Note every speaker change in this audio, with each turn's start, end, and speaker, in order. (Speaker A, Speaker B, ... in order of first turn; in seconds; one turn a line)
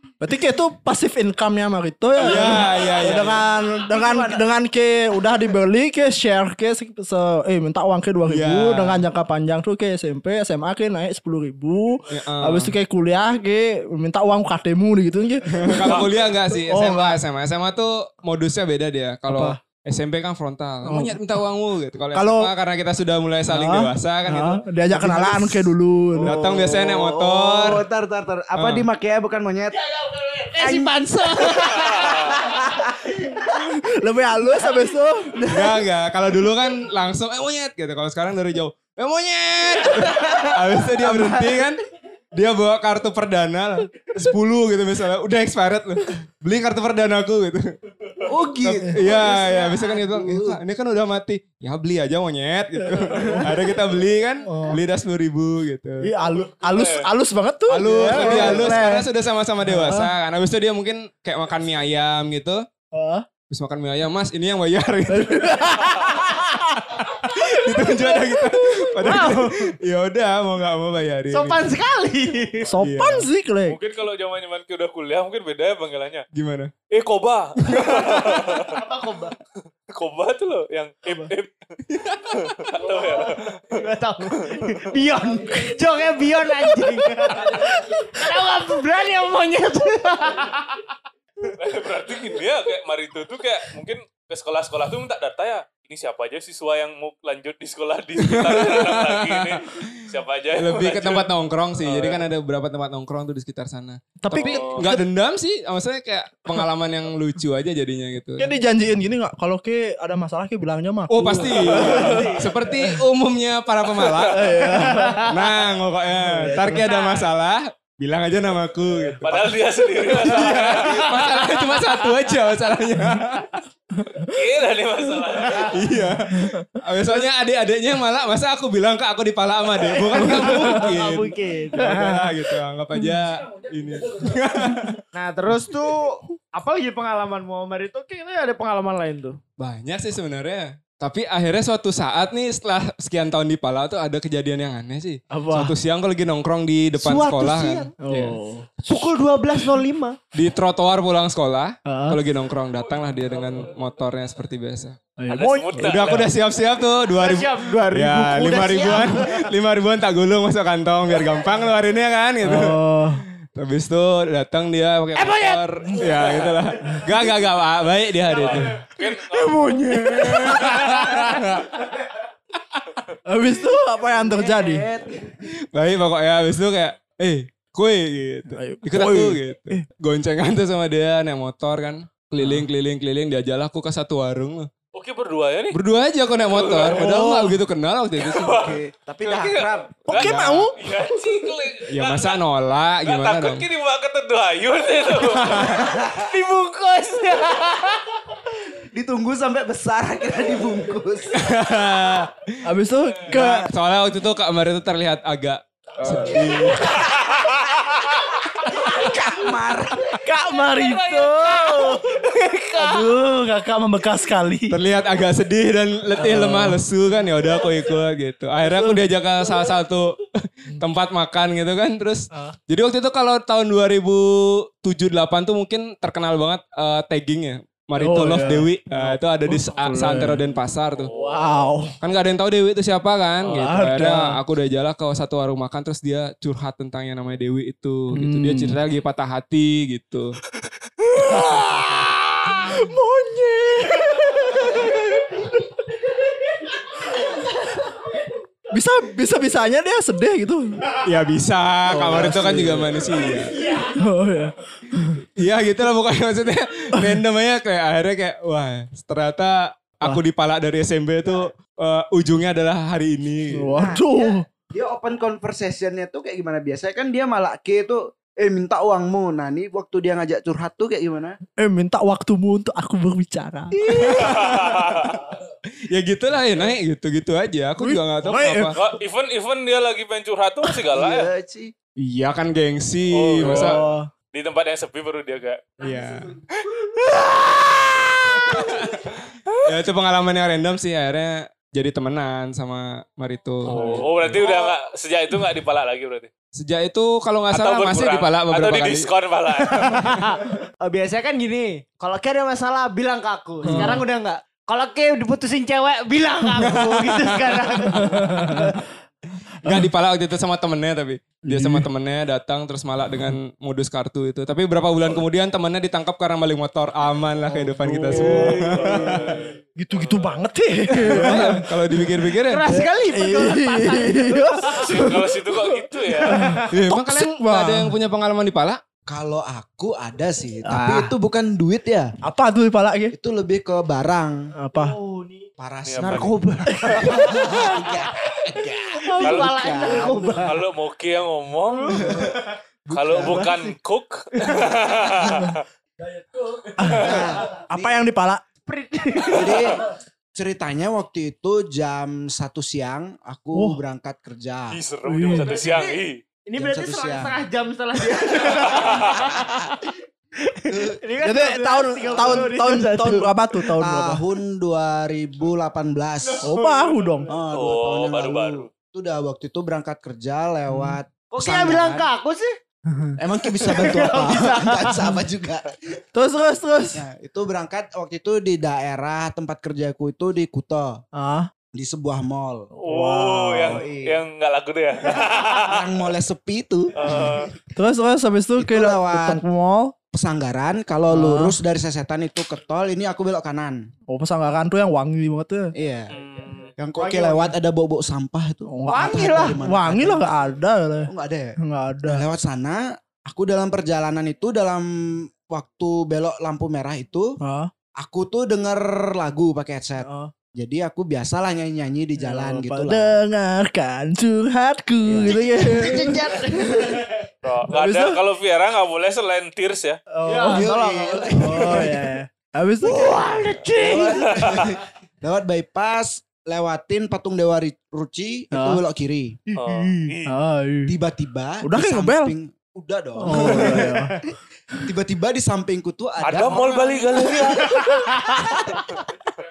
Speaker A: 0.2-16.1
Speaker B: 2.2-3.5
Speaker C: 2.2-3.3
Speaker C: 3.9-4.5
Speaker B: 8.3-9.1
Speaker B: 12.1-12.8
Speaker B: 15.5-27.9
Speaker A: 16.6-17.2
Speaker A: 19.3-19.6
Speaker A: 20.8-21.2
Speaker A: 22.1-22.5
Speaker A: 23.5-26.8
Speaker D: 26.2-29.8
Speaker B: 28.6-28.9
Speaker C: 30.1-33.5
Speaker D: 30.6-33.1
Speaker E: 31.8-32.4
Speaker A: 33.5-35.5
Speaker B: 35.5-41.8
Speaker C: 39.8-41.5
Speaker B: 42.3-47.7
Speaker D: 48.2-50.6
Speaker B: 48.6-56.1
Speaker A: 48.7-49.0
Speaker A: 52.9-53.5
Speaker A: 54.5-54.8
Speaker A: 56.0-59.1
Speaker E: 56.6-57.1
Speaker B: 57.7-62.6
Speaker C: 58.1-58.8
Speaker D: 58.2-58.7
Speaker A: 59.6-60.1
Speaker A: 62.9-63.2
Speaker B: 63.5-65.8
Speaker A: 65.1-67.0
Speaker B: 67.2-71.7
Speaker C: 67.3-69.7
Speaker C: 71.3-72.8
Speaker A: 72.7-73.8
Speaker B: 72.8-73.3
Speaker E: 73.7-76.3
Speaker B: 76.3-76.7
Speaker E: 76.9-78.8
Speaker B: 77.6-78.5
Speaker C: 78.5-79.3
Speaker E: 79.9-81.5
Speaker B: 81.9-82.7
Speaker E: 82.3-84.8
Speaker C: 82.9-90.9
Speaker E: 91.5-101.3
Speaker B: 98.2-108.5
Speaker E: 101.8-102.2
Speaker A: 104.2-105.0
Speaker E: 104.3-104.9
Speaker D: 104.7-105.0
Speaker A: 108.4-113.0
Speaker B: 111.1-123.6
Speaker C: 111.7-112.4
Speaker E: 114.0-114.5
Speaker A: 114.3-115.3
Speaker C: 114.6-115.4
Speaker A: 116.2-116.9
Speaker C: 116.8-117.3
Speaker E: 119.2-121.2
Speaker C: 120.5-121.9
Speaker A: 124.0-124.3
Speaker E: 124.3-125.8
Speaker B: 125.6-135.0
Speaker A: 126.3-126.7
Speaker C: 129.9-132.3
Speaker A: 130.2-130.8
Speaker A: 131.8-132.3
Speaker C: 135.1-139.4
Speaker B: 139.6-148.4
Speaker A: 145.3-145.7
Speaker C: 147.0-147.9
Speaker A: 148.0-148.7
Speaker C: 148.8-150.2
Speaker B: 150.3-155.0
Speaker A: 151.9-152.2
Speaker A: 155.2-156.3
Speaker E: 155.3-156.3
Speaker B: 155.8-168.8
Speaker C: 157.2-159.5
Speaker A: 162.4-163.2
Speaker C: 165.2-167.0
Speaker E: 168.3-169.8
Speaker C: 168.4-171.6
Speaker B: 170.1-171.7
Speaker A: 173.3-174.9
Speaker D: 174.3-175.3
Speaker B: 175.7-184.7
Speaker A: 178.5-179.8
Speaker A: 182.4-182.7
Speaker E: 184.9-185.8
Speaker B: 185.7-188.5
Speaker E: 186.5-187.0
Speaker A: 186.8-187.6
Speaker E: 188.2-192.4
Speaker D: 188.4-190.1
Speaker A: 190.1-190.7
Speaker B: 190.1-190.7
Speaker B: 191.9-193.7
Speaker E: 193.1-195.7
Speaker B: 195.2-195.9
Speaker C: 195.7-198.2
Speaker D: 195.7-196.3
Speaker D: 198.8-201.5
Speaker B: 201.3-202.6
Speaker A: 202.6-203.7
Speaker B: 203.3-206.9
Speaker C: 208.7-209.1
Speaker D: 208.8-210.2
Speaker A: 210.1-214.8
Speaker C: 210.7-213.1
Speaker B: 214.7-231.1
Speaker A: 216.2-216.8
Speaker A: 228.0-230.4
Speaker E: 230.9-231.5
Speaker A: 231.2-232.0
Speaker B: 232.0-240.4
Speaker A: 233.4-234.3
Speaker A: 238.1-238.8
Speaker A: 241.2-245.6
Speaker A: 248.7-250.8
Speaker B: 251.0-253.7
Speaker A: 251.9-253.1
Speaker C: 253.6-253.9
Speaker A: 253.8-255.2
Speaker B: 255.4-263.7
Speaker A: 263.5-264.4
Speaker D: 263.7-271.4
Speaker A: 271.6-273.8
Speaker B: 273.9-275.2
Speaker E: 274.0-275.2
Speaker B: 275.9-278.8
Speaker A: 277.8-278.8
Speaker E: 278.8-281.3
Speaker D: 280.9-281.7
Speaker B: 282.0-283.8
Speaker E: 283.1-285.8
Speaker A: 283.4-284.1
Speaker B: 285.8-286.3
Speaker C: 286.9-288.7
Speaker B: 288.5-289.1
Speaker B: 289.6-294.4
Speaker E: 293.7-296.3
Speaker A: 293.7-294.0
Speaker C: 294.4-294.7
Speaker B: 296.5-299.1
Speaker E: 297.5-300.1
Speaker C: 299.6-308.7
Speaker A: 303.6-304.1
Speaker B: 303.7-304.0
Speaker B: 306.7-307.2
Speaker A: 307.9-308.8
Speaker B: 309.6-319.4
Speaker A: 311.5-311.9
Speaker A: 317.6-319.2
Speaker C: 318.1-319.5
Speaker A: 319.8-322.1
Speaker E: 319.9-320.3
Speaker B: 321.0-322.6
Speaker C: 322.5-325.1
Speaker A: 322.7-325.2
Speaker E: 324.7-326.4
Speaker C: 326.1-326.6
Speaker A: 326.3-327.9
Speaker B: 326.7-328.8
Speaker D: 329.1-332.1
Speaker A: 330.6-331.1
Speaker A: 332.2-333.1
Speaker D: 333.1-334.5
Speaker A: 334.6-334.9
Speaker C: 334.8-335.5
Speaker D: 335.6-336.4
Speaker E: 335.8-336.3
Speaker C: 336.0-338.0
Speaker D: 336.9-340.4
Speaker C: 339.0-340.6
Speaker E: 339.2-339.6
Speaker E: 340.3-342.2
Speaker C: 341.7-342.4
Speaker D: 342.0-343.6
Speaker E: 342.9-345.6
Speaker A: 343.2-343.6
Speaker C: 344.4-345.1
Speaker D: 345.2-345.5
Speaker A: 345.3-345.6
Speaker A: 346.8-348.4
Speaker D: 346.9-348.0
Speaker C: 348.7-349.7
Speaker D: 349.2-354.8
Speaker A: 353.5-353.8
Speaker E: 354.7-356.2
Speaker A: 355.1-355.6
Speaker C: 355.3-363.7
Speaker D: 356.6-357.4
Speaker E: 358.7-359.1
Speaker D: 358.7-359.7
Speaker D: 360.7-361.0
Speaker A: 361.2-364.2
Speaker D: 363.8-366.5
Speaker C: 366.3-367.4
Speaker A: 366.4-367.3
Speaker D: 367.3-372.1
Speaker E: 367.5-368.7
Speaker A: 370.7-371.0
Speaker C: 371.3-372.5
Speaker A: 372.9-373.2
Speaker D: 373.2-376.0
Speaker C: 373.6-375.1
Speaker A: 376.1-377.1
Speaker D: 376.9-381.0
Speaker A: 381.1-381.5
Speaker D: 381.7-382.7
Speaker A: 382.8-383.9
Speaker E: 382.8-385.9
Speaker D: 383.6-384.2
Speaker D: 385.0-387.5
Speaker E: 387.0-387.5
Speaker A: 387.8-389.9
Speaker D: 388.6-389.4
Speaker D: 390.1-393.9
Speaker A: 391.1-391.6
Speaker A: 394.1-395.7
Speaker D: 395.8-396.1
Speaker E: 396.1-396.7
Speaker D: 396.8-400.4
Speaker C: 397.0-397.6
Speaker A: 398.7-402.2
Speaker C: 398.9-399.6
Speaker D: 401.1-407.4
Speaker A: 407.4-407.7
Speaker D: 408.0-413.1
Speaker A: 410.0-410.3
Speaker A: 412.2-416.3
Speaker D: 415.1-417.1
Speaker C: 415.3-417.1
Speaker E: 417.4-420.0
Speaker A: 417.7-418.2
Speaker A: 420.1-420.7
Speaker C: 420.2-421.9
Speaker D: 420.4-421.9
Speaker A: 421.3-423.3
Speaker C: 422.8-424.6
Speaker D: 423.8-429.4
Speaker E: 424.4-424.7
Speaker A: 428.5-428.8
Speaker C: 429.5-430.1
Speaker E: 429.6-430.3
Speaker A: 430.3-431.0
Speaker D: 430.9-434.0
Speaker A: 431.6-432.3
Speaker A: 433.2-434.1
Speaker C: 433.2-434.3
Speaker D: 434.7-437.7
Speaker E: 436.2-437.9
Speaker C: 437.2-439.0
Speaker D: 438.4-438.7